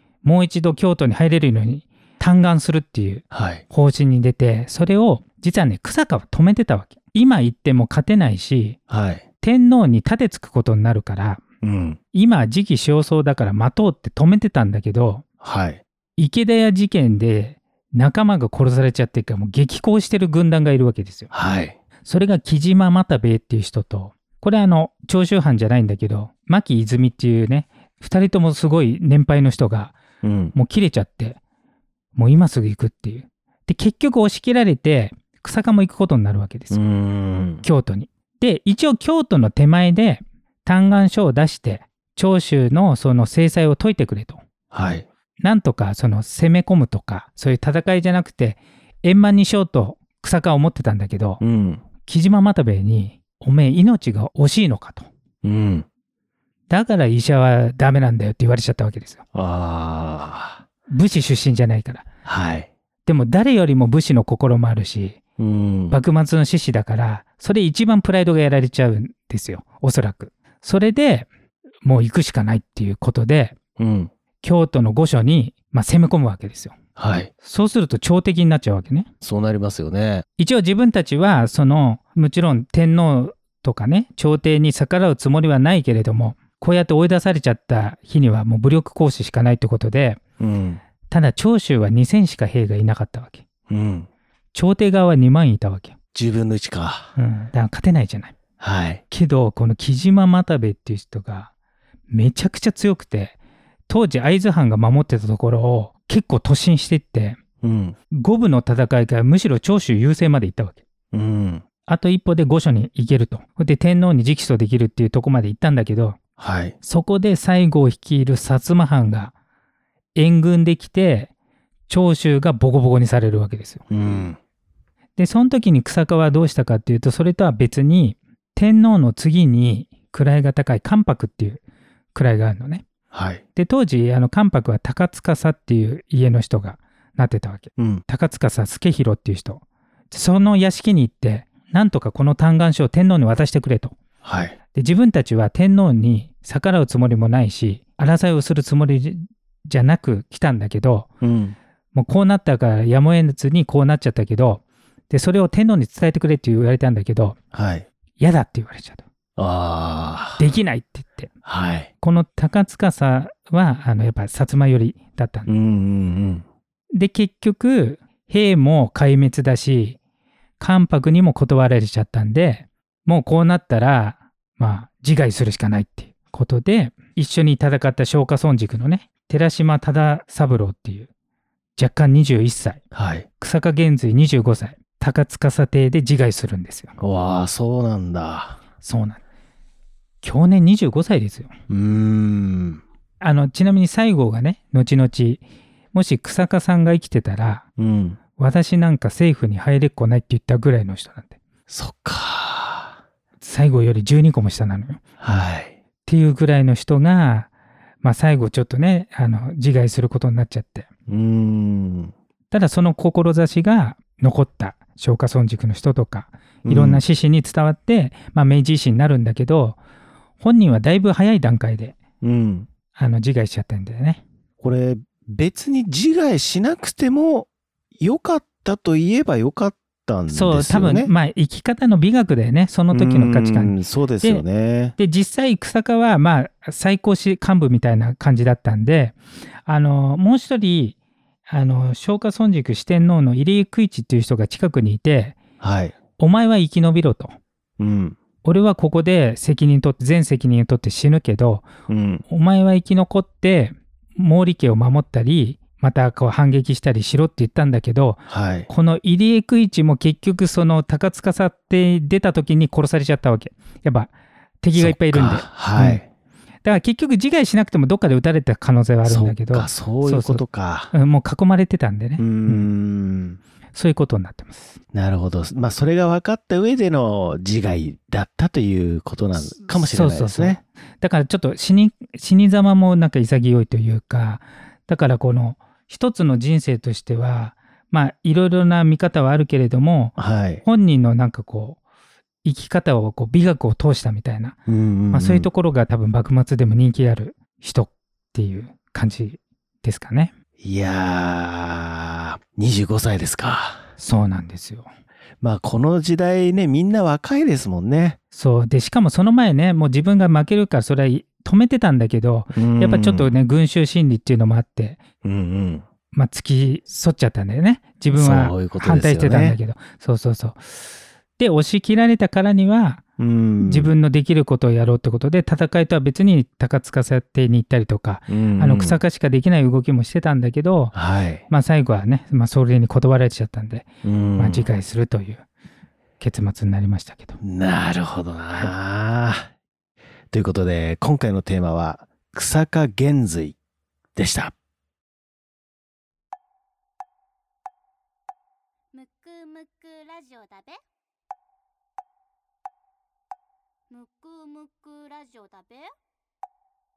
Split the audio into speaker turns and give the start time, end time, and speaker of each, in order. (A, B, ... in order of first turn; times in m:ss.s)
0:00.2-0:08.8 A
0:03.3-0:03.6 B
0:08.9-0:09.2 B
0:09.4-0:11.4 A
0:11.6-0:12.0 B
0:12.1-0:15.2 A
0:15.4-0:15.8 B
0:16.2-0:21.3 A
0:21.3-0:21.8 B
0:22.0-0:30.0 A
0:30.2-0:30.5 B
0:30.5-0:31.4 A
0:32.1-0:36.8 A
0:36.7-0:37.6 B
0:37.6-0:44.4 A
0:44.7-0:45.0 B
0:45.4-0:51.4 A
0:51.4-0:51.8 B
0:52.0-0:55.1 A
0:55.4-0:55.8 B
0:56.7-0:59.2 A
0:59.3-1:00.6 B
1:00.9-1:02.1 A
1:02.2-1:02.7 B
1:03.0-1:05.2 A
1:05.4-1:06.0 B
1:05.9-1:11.3 A
1:11.8-1:13.6 A
1:13.8-1:14.1 B
1:14.4-1:16.8 A
1:17.0-1:17.3 B
1:17.4-1:19.1 A
1:19.2-1:20.2 B
1:20.4-1:30.2 A
1:30.4-1:30.8 B
1:31.1-1:33.4 A
1:33.7-1:34.1 B
1:34.5-1:35.9 A
1:36.1-1:37.1 B
1:37.2-1:38.3 A
1:38.6-1:39.0 B
1:39.1-1:41.5 A
1:42.1-1:43.4 A
1:43.9-1:47.4 A
1:47.6-1:48.0 B
1:48.1-1:50.8 A
1:51.1-1:51.6 B
1:51.9-1:56.2 A
1:56.4-1:56.8 B
1:56.8-1:59.3 A
2:00.1-2:01.3 A
2:01.9-2:03.8 A
2:03.9-2:04.4 B
2:05.2-2:11.6 A
2:12.1-2:12.8 A
2:13.1-2:13.4 B
2:13.6-2:24.0 A
2:17.8-2:18.0 B
2:24.2-2:24.6 B
2:24.7-2:31.1 A
2:31.2-2:31.6 B
2:31.9-2:37.4 A
2:37.5-2:37.8 B
2:38.2-2:39.0 A
2:39.4-2:40.4 B
2:40.4-2:41.3 A
2:41.4-2:41.9 B
2:42.0-2:45.5 A
2:45.5-2:46.4 B
2:46.9-2:50.0 A
2:50.6-3:01.1 A
3:01.8-3:02.8 A
3:02.9-3:03.3 B
3:03.4-3:06.9 A
3:07.0-3:08.6 B
3:08.8-3:09.2 A
3:10.2-3:11.5 A
3:11.7-3:12.8 B
3:13.2-3:15.4 A
3:15.9-3:17.6 A
3:17.8-3:18.2 B
3:18.4-3:21.4 A
3:21.7-3:22.9 B
3:23.4-3:25.0 A
3:25.2-3:25.7 B
3:26.0-3:27.5 A
3:28.0-3:30.9 A
3:31.1-3:32.1 B
3:32.5-3:39.8 A
3:36.6-3:37.0 B
3:40.4-3:42.0 A
3:42.2-3:42.7 B
3:42.9-3:44.2 A
3:44.6-3:51.1 B
3:50.3-4:00.9 A
3:52.9-3:54.9 B
4:01.5-4:05.4 A
4:05.6-4:06.0 B
4:06.2-4:07.3 A
4:07.8-4:08.2 B
4:08.4-4:11.7 A
4:11.9-4:12.2 B
4:12.3-4:26.0 A
4:18.3-4:18.7 B
4:24.7-4:26.0 B
4:26.6-4:32.7 A
4:29.0-4:30.9 B
4:32.2-4:33.4 B
4:33.7-4:34.8 A
4:34.9-4:40.6 B
4:39.8-4:51.8 A
4:50.2-4:50.6 B
4:52.4-4:54.6 A
4:54.7-4:55.5 B
4:55.1-5:00.3 A
5:00.6-5:03.9 B
5:04.0-5:04.9 A
5:05.4-5:08.2 B
5:08.3-5:15.0 A
5:12.5-5:13.3 B
5:15.2-5:15.8 B
5:16.1-5:23.0 A
5:18.1-5:19.6 B
5:23.2-5:23.9 B
5:23.6-5:30.9 A
5:28.3-5:29.0 B
5:30.9-5:31.4 B
5:31.5-5:35.4 A
5:34.0-5:34.7 B
5:36.2-5:37.4 A
5:37.4-5:39.5 B
5:40.3-5:43.6 B
5:44.1-5:44.5 B
5:48.9-5:50.8 C
5:53.9-5:55.9 C